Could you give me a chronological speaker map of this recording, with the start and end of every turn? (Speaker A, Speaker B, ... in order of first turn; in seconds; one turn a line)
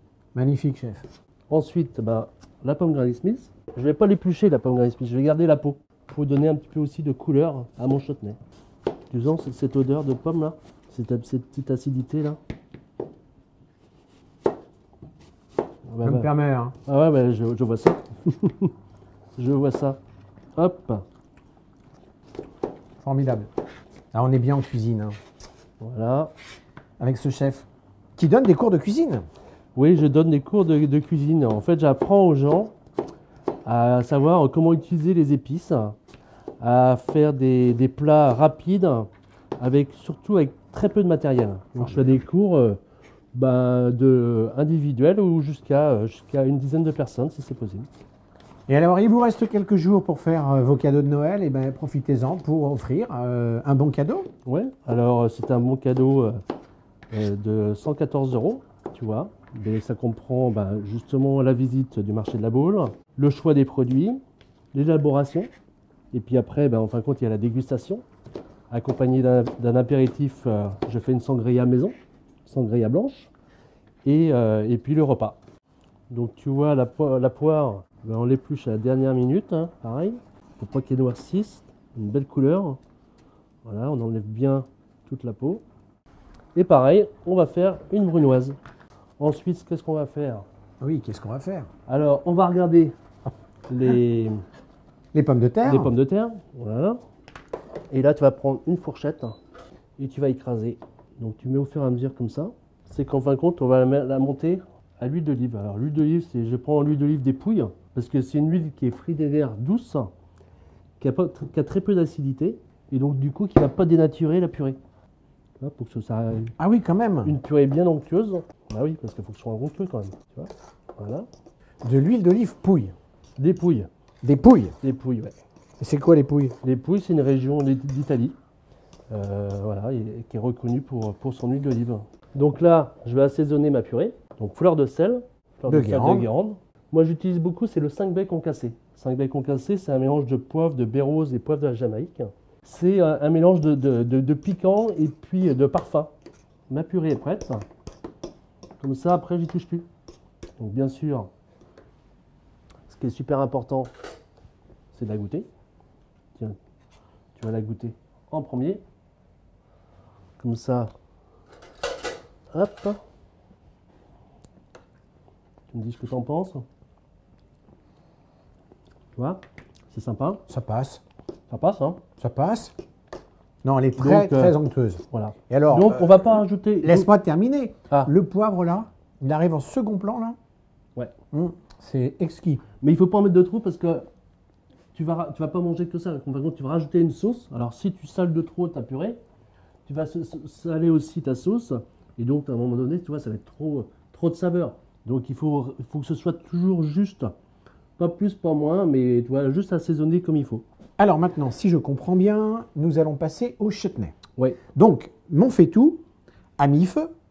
Speaker A: 0.3-1.1
Speaker B: 1.5-8.4
Speaker B: 9.1-12.4
Speaker B: 15.9-16.3
Speaker A: 16.0-16.8
Speaker B: 16.9-18.7
Speaker B: 19.4-20.0
Speaker B: 20.6-21.1
Speaker A: 23.0-23.5
Speaker A: 24.1-25.2
Speaker B: 25.8-26.3
Speaker A: 27.0-29.2
Speaker B: 29.8-32.7
Speaker B: 33.6-36.0
Speaker B: 36.6-42.8
Speaker A: 41.8-42.1
Speaker B: 43.3-47.9
Speaker A: 48.7-54.3
Speaker B: 54.5-56.4
Speaker B: 57.1-64.2
Speaker B: 64.7-65.5
Speaker B: 66.1-68.0
Speaker B: 68.7-71.9
Speaker B: 72.5-73.3
Speaker B: 74.0-75.4
Speaker B: 76.1-82.8
Speaker B: 83.7-85.6
Speaker B: 86.5-88.6
Speaker B: 89.2-90.4
Speaker A: 90.8-91.7
Speaker B: 91.9-93.0
Speaker B: 93.7-94.4
Speaker A: 95.1-95.9
Speaker B: 95.7-97.0
Speaker B: 97.9-99.4
Speaker B: 100.0-110.1
Speaker B: 111.0-114.8
Speaker B: 115.6-116.5
Speaker A: 116.6-117.3
Speaker B: 117.2-121.3
Speaker A: 121.8-122.9
Speaker B: 123.4-123.9
Speaker A: 124.2-124.8
Speaker B: 124.8-125.3
Speaker A: 125.8-126.6
Speaker B: 126.6-128.4
Speaker B: 129.1-146.1
Speaker A: 135.7-136.3
Speaker B: 146.7-147.6
Speaker B: 148.8-149.9
Speaker B: 150.6-151.3
Speaker B: 152.9-153.9
Speaker B: 154.9-155.5
Speaker B: 157.3-158.8
Speaker B: 160.4-160.9
Speaker B: 162.5-163.0
Speaker B: 165.7-166.7
Speaker B: 169.2-170.4
Speaker A: 170.5-171.0
Speaker B: 171.5-172.0
Speaker A: 172.2-172.8
Speaker A: 173.6-180.4
Speaker B: 174.0-174.6
Speaker B: 175.1-177.1
Speaker A: 181.3-182.6
Speaker B: 182.8-184.1
Speaker B: 184.9-189.2
Speaker B: 189.9-197.3
Speaker B: 198.0-200.7
Speaker A: 201.0-204.2
Speaker A: 204.8-206.0
Speaker A: 206.6-207.1